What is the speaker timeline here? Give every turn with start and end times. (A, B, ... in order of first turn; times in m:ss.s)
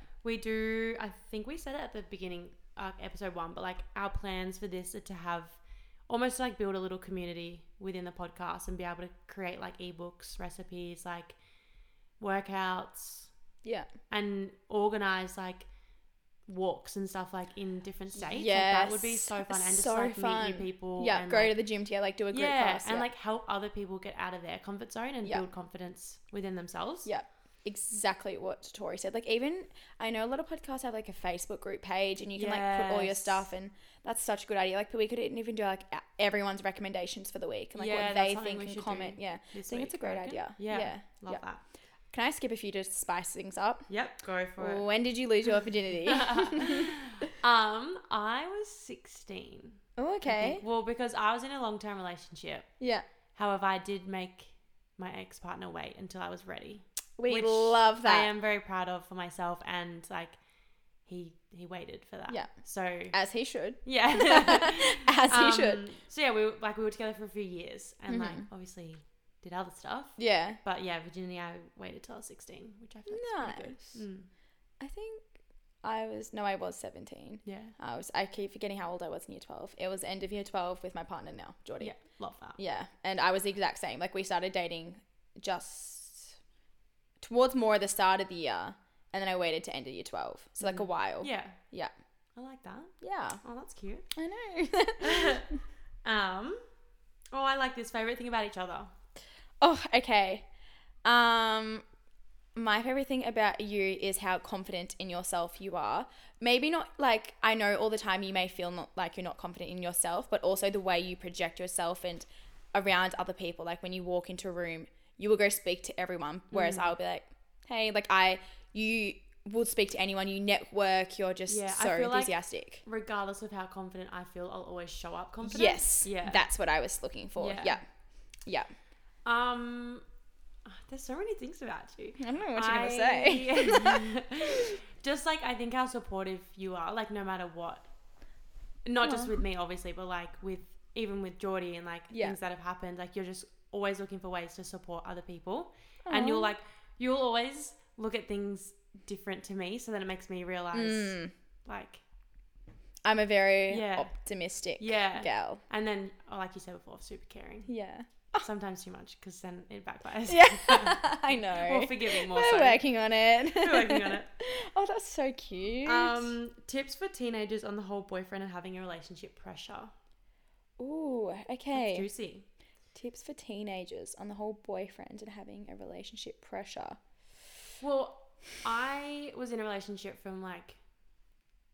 0:00.2-0:11.4 A
0:12.2-0:13.3 A
0:13.6-0:13.9 B
0:14.1-0:15.7 A
0:16.5-0:21.5 A
0:18.2-0:23.1 B
0:22.3-0:27.1 A
0:27.0-0:41.4 B
0:32.3-0:33.4 A
0:37.7-0:41.6 A
0:42.1-0:43.9 B
0:43.9-0:44.8 A
0:44.6-0:46.9 B
0:46.1-0:52.7 A
0:50.0-0:50.6 B
0:52.8-0:53.0 B
0:53.3-1:00.4 A
0:57.2-0:58.3 B
1:01.0-1:03.2 A
1:03.1-1:05.8 B
1:03.8-1:14.3 A
1:08.1-1:08.4 B
1:10.2-1:10.6 B
1:13.1-1:14.0 B
1:14.8-1:15.3 B
1:15.8-1:22.0 B
1:17.4-1:17.7 A
1:21.8-1:22.6 A
1:22.6-1:26.4 B
1:27.2-1:31.9 B
1:30.6-1:31.6 A
1:32.4-1:34.1 A
1:33.0-1:33.4 B
1:34.1-1:35.4 B
1:35.0-1:35.5 A
1:36.0-1:36.6 A
1:37.3-1:38.9 A
1:39.6-1:40.4 B
1:41.0-1:41.8 B
1:42.5-2:02.8 B
1:56.5-1:56.9 A
2:01.5-2:06.4 A
2:05.4-2:07.8 B
2:07.4-2:07.8 A
2:09.2-2:10.0 A
2:10.6-2:17.9 A
2:12.2-2:14.7 B
2:18.8-2:32.0 A
2:19.0-2:19.4 B
2:22.1-2:22.4 B
2:26.0-2:26.5 B
2:30.7-2:31.3 B
2:33.0-2:35.6 B
2:33.7-2:34.1 A
2:34.8-2:37.7 A
2:37.7-2:38.4 B
2:38.4-2:42.8 A
2:40.3-2:46.3 B
2:43.5-2:44.3 A
2:45.8-2:49.9 A
2:50.8-2:52.1 B
2:51.7-2:52.4 A
2:52.9-2:57.0 B
2:57.8-3:00.8 A